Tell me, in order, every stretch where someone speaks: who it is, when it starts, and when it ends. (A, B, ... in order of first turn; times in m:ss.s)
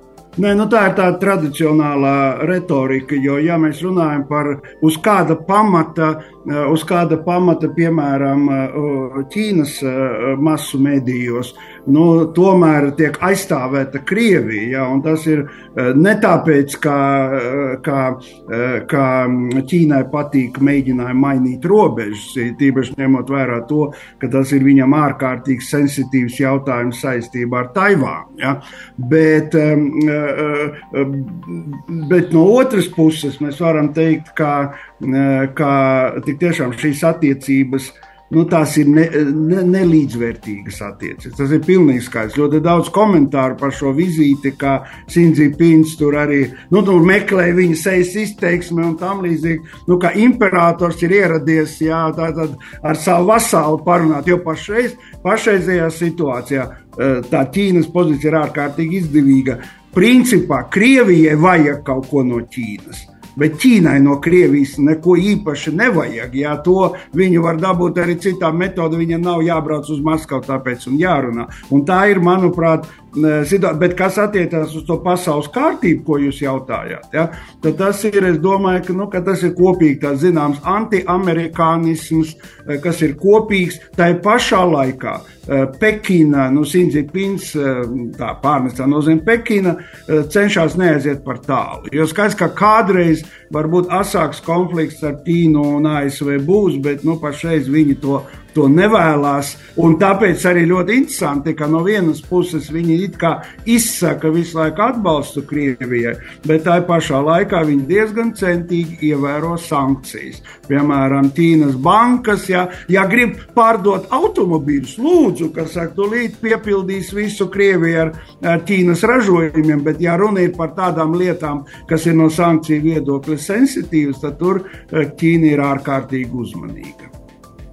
0:00.4-2:07.1 A